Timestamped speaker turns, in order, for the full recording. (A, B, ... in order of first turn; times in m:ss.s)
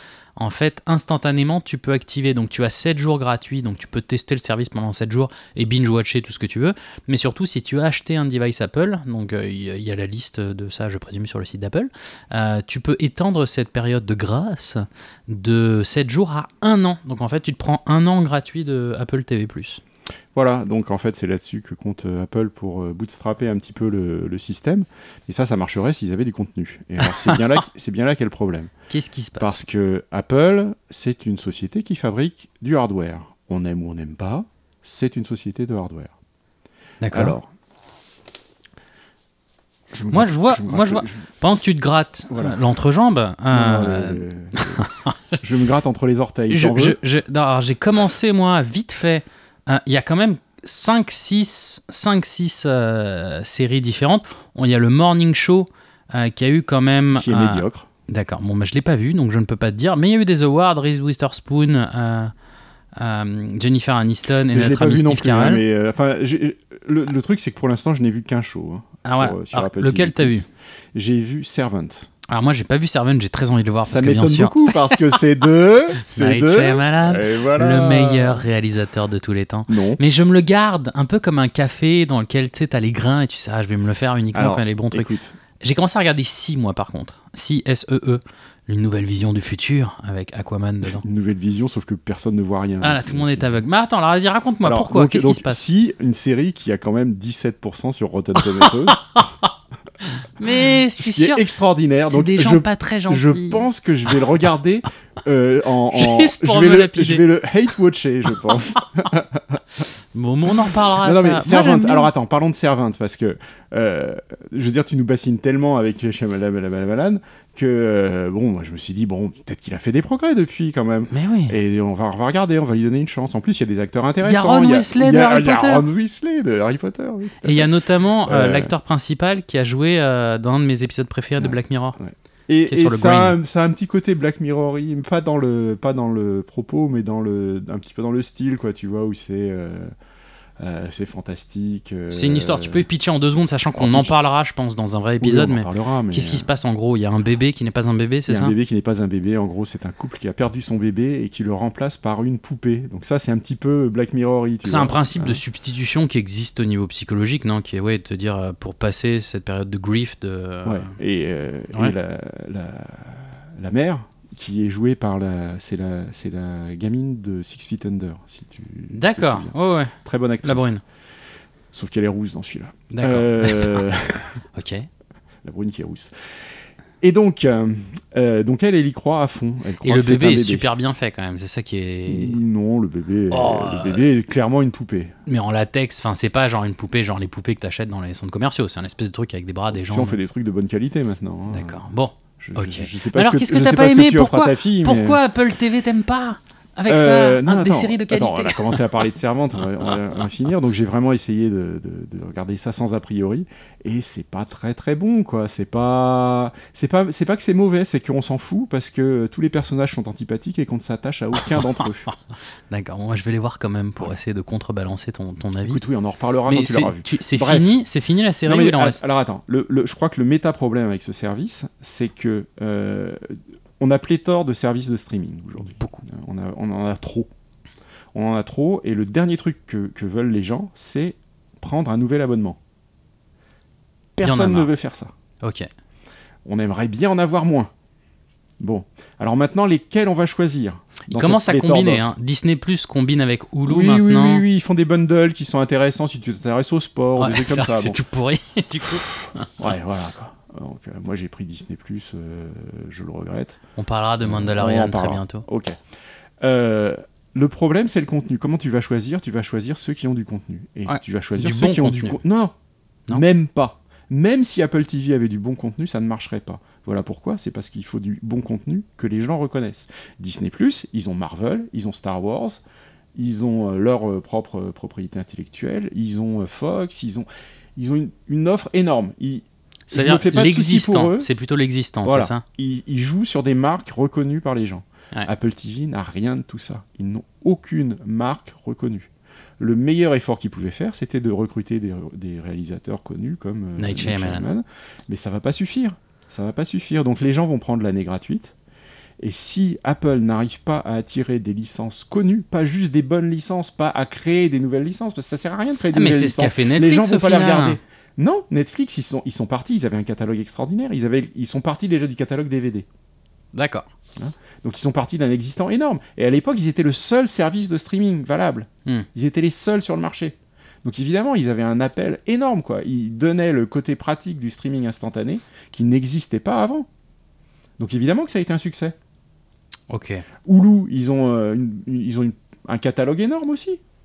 0:00.4-0:19.8 A
0:20.3-0:28.7 B
0:27.0-0:27.4 A
0:28.9-0:29.6 A
0:29.4-0:36.1 B
0:37.0-0:37.4 A
0:37.1-0:37.5 B
0:39.9-0:41.3 B
0:40.1-0:45.4 A
0:42.3-0:42.6 B
0:43.5-0:44.8 B
0:45.4-0:47.0 B
0:46.5-1:02.3 A
0:57.2-0:57.9 B
1:03.0-1:05.6 A
1:04.5-1:12.1 B
1:09.0-1:10.5 A
1:12.3-1:15.0 A
1:13.9-1:18.4 B
1:16.0-1:25.1 A
1:19.7-1:20.0 B
1:24.3-1:25.4 B
1:25.6-1:31.0 A
1:30.8-1:33.6 B
1:32.8-1:35.6 A
1:34.6-1:39.2 B
1:40.2-1:41.5 A
1:41.0-1:49.6 B
1:42.0-1:43.7 A
1:45.9-1:47.3 A
1:50.1-1:52.1 A
1:50.5-2:07.7 B
2:01.1-2:01.6 A
2:04.2-2:05.9 A
2:07.4-2:12.0 A
2:08.2-2:08.7 B
2:11.4-2:19.9 B
2:12.7-2:13.4 A
2:20.6-2:22.9 B
2:22.1-2:28.6 A
2:23.8-2:24.2 B
2:25.2-2:26.5 B
2:28.3-2:35.4 B
2:34.6-2:41.0 A
2:40.6-2:50.7 B
2:48.9-2:50.8 A
2:51.7-2:54.4 B
2:52.9-2:53.8 A
2:54.6-2:54.9 A
2:55.4-2:56.1 B
2:57.0-3:00.7 B
2:59.8-3:02.4 A
3:02.1-3:05.2 B
3:03.3-3:04.0 A
3:05.3-3:10.2 A
3:09.7-3:11.8 B
3:11.5-3:19.1 A
3:12.4-3:15.2 B
3:16.9-3:32.1 B
3:32.7-3:35.8 A
3:35.7-3:37.8 B
3:36.5-3:39.1 A
3:38.5-3:47.3 B
3:45.6-3:46.1 A
3:48.1-3:52.6 B
3:54.2-3:55.1 B
3:54.2-3:54.7 A
3:55.4-3:55.7 A
3:56.4-3:57.7 B
3:58.6-4:02.1 B
4:01.1-4:04.4 A
4:03.6-4:08.0 B
4:07.2-4:09.5 A
4:08.8-4:13.6 B
4:13.8-4:15.4 A
4:14.2-4:15.8 B
4:16.4-4:22.5 B
4:20.9-4:22.2 A
4:23.1-4:32.6 B
4:33.2-4:41.3 B
4:39.9-4:42.4 A
4:42.0-4:58.5 B
4:53.8-4:54.5 A
4:59.2-5:12.9 B
5:05.9-5:07.8 A
5:13.5-5:13.9 A
5:14.2-5:26.9 B
5:27.8-5:29.0 B
5:29.9-5:30.2 A
5:30.4-5:33.8 B